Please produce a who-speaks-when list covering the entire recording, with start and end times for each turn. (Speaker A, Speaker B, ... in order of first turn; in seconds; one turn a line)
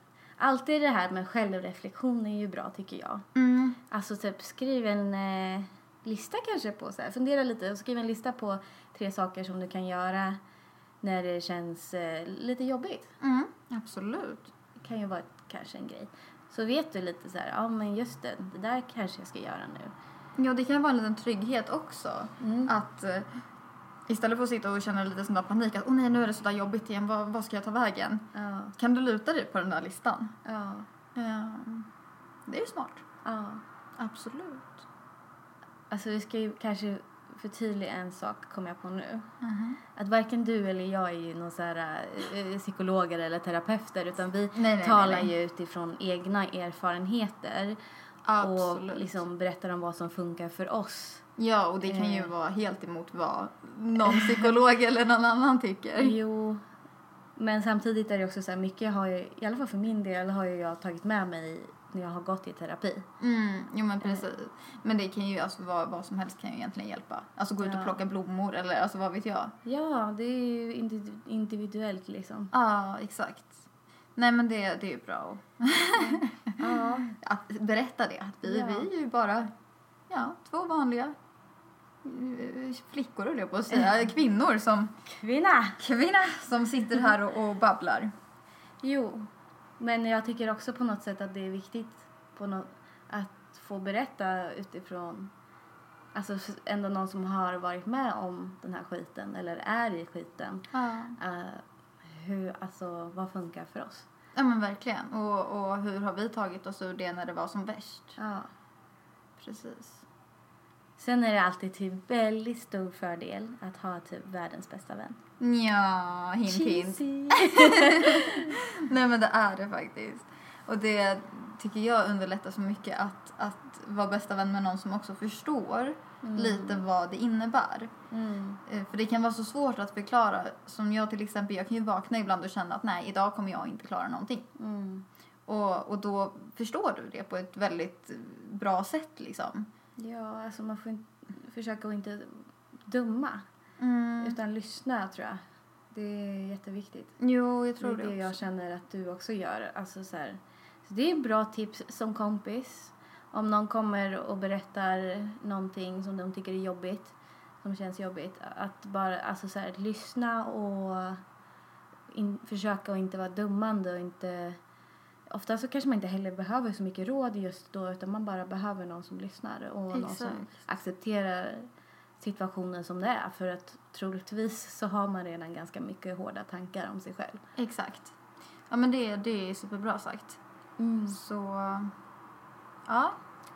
Speaker A: 0.4-3.3
Speaker B: 3.4-3.8
Speaker A: 3.9-10.4
Speaker A: 11.0-13.1
Speaker B: 13.2-14.5
Speaker A: 14.8-19.9
Speaker B: 20.4-23.4
Speaker A: 22.4-22.7
Speaker B: 24.1-30.4
Speaker A: 28.3-28.8
Speaker A: 30.4-30.9
Speaker B: 31.1-31.9
Speaker B: 32.5-33.0
Speaker A: 33.2-33.6
Speaker B: 34.0-34.9
Speaker A: 35.9-39.3
Speaker B: 39.4-39.8
Speaker A: 40.0-47.8
Speaker B: 44.5-45.3
Speaker B: 48.2-49.2
Speaker A: 48.4-51.2
Speaker B: 51.4-56.2
Speaker A: 51.8-52.3
Speaker A: 56.0-56.6
Speaker A: 57.4-63.1
Speaker B: 63.2-69.6
Speaker A: 67.6-68.0
Speaker A: 69.7-72.5
Speaker B: 72.5-79.5
Speaker A: 76.0-77.1
Speaker A: 78.5-78.9
Speaker B: 80.1-81.2
Speaker B: 82.0-84.9
Speaker A: 85.0-85.8
Speaker B: 85.8-88.1
Speaker A: 88.8-89.3
Speaker A: 89.8-95.3
Speaker A: 96.1-104.1
Speaker B: 100.7-101.2
Speaker B: 104.3-108.2
Speaker A: 108.2-108.5
Speaker B: 109.4-110.0
Speaker A: 111.0-115.2
Speaker B: 115.4-127.9
Speaker A: 116.5-118.6
Speaker A: 126.2-126.8
Speaker A: 128.1-128.6
Speaker B: 128.7-134.5
Speaker A: 134.6-135.1
Speaker B: 135.5-139.7
Speaker A: 140.0-143.4
Speaker B: 143.8-144.4
Speaker A: 144.2-145.4
Speaker A: 145.9-147.2
Speaker B: 147.2-148.4
Speaker A: 147.8-161.2
Speaker A: 162.1-164.6
Speaker A: 165.3-171.7
Speaker B: 169.9-170.6
Speaker A: 172.2-177.4
Speaker B: 177.6-178.2
Speaker B: 178.7-180.4
Speaker A: 180.8-181.2
Speaker B: 181.1-181.9
Speaker B: 182.9-183.2